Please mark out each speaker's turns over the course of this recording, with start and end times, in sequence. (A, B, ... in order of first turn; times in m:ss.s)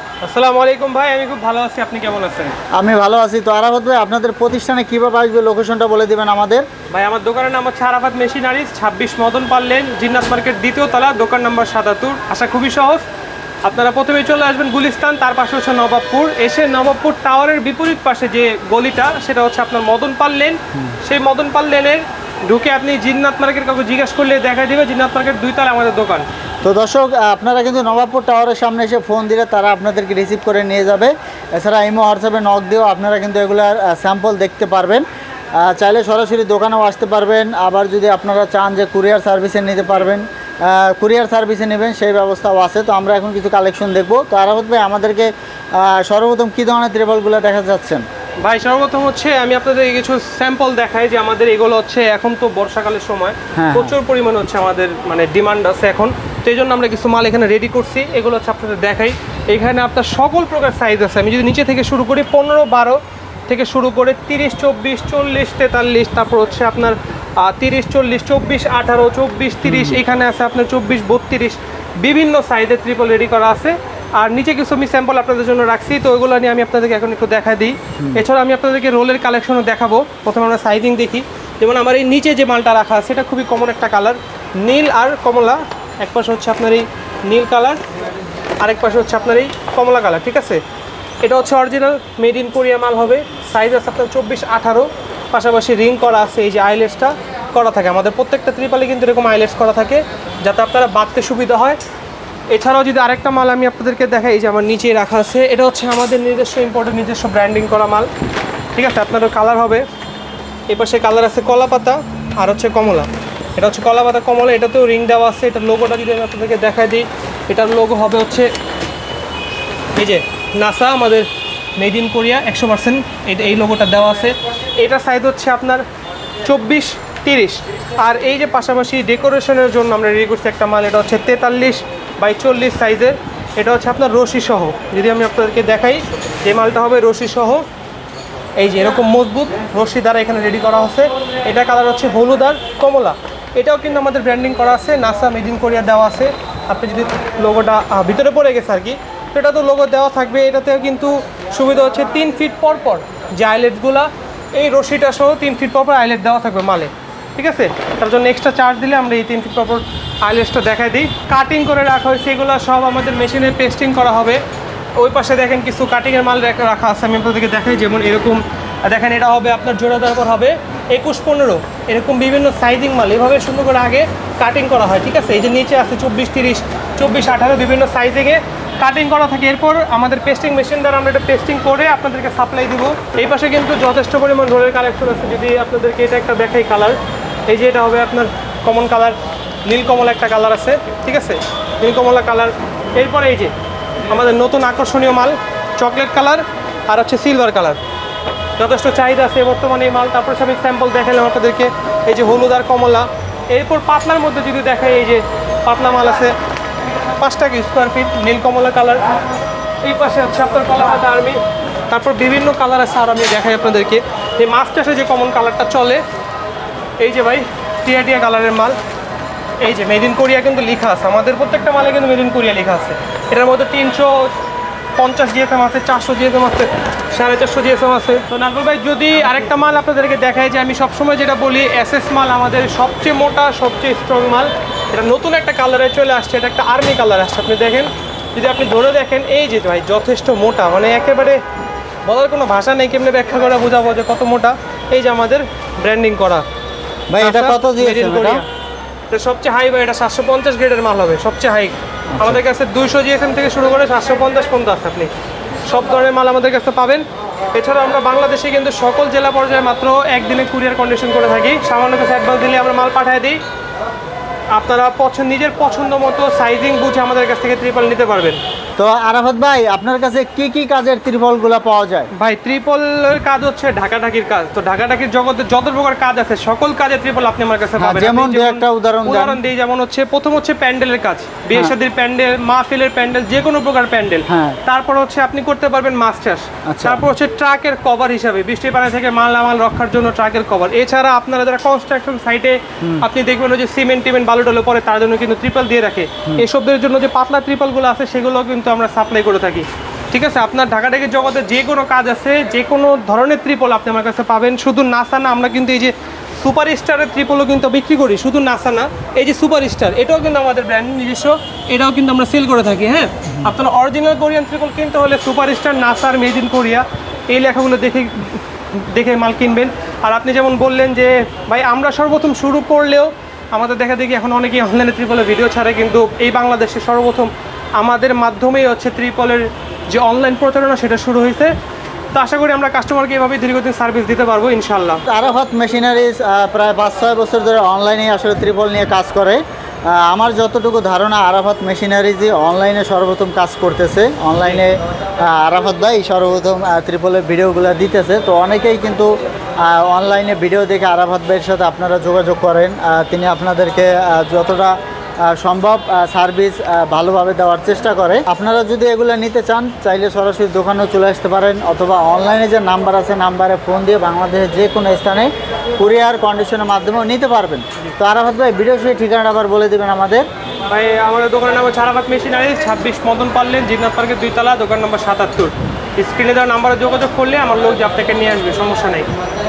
0:00.2-0:02.6 A
0:02.7-0:06.7 B
0:06.9-0:13.1 A
0:13.6-0:26.3 A
0:26.6-0:35.0 B
0:35.6-0:48.0 B
0:48.4-1:27.8 A
0:53.6-0:54.0 B
1:09.6-1:10.0 B
1:28.6-1:30.6 A
1:31.2-1:41.8 A
1:42.5-1:48.1 A
1:48.8-1:49.8 A
1:50.7-1:58.5 A
2:00.0-2:05.8 A
2:06.4-2:17.7 A
2:18.6-2:44.4 A
2:45.0-3:07.0 A
3:07.5-3:13.5 A
3:14.1-3:17.8 A
3:18.6-3:26.4 A
3:27.2-3:29.1 A
3:29.8-3:36.0 A
3:37.0-3:38.8 A
3:39.6-3:44.3 A
3:45.0-4:01.4 A
4:02.0-4:06.4 A
4:07.1-4:08.4 B
4:07.2-4:08.5 A
4:09.1-4:15.1 A
4:12.1-4:12.4 B
4:15.7-4:23.4 A
4:24.5-4:28.4 A
4:28.8-4:32.1 B
4:32.2-5:31.5 A
4:37.8-4:39.4 B
4:44.3-4:44.6 B
4:46.7-4:47.1 B
4:52.8-4:53.1 B
5:32.1-5:35.0 A
5:35.1-6:10.3 B
6:10.7-6:19.1 A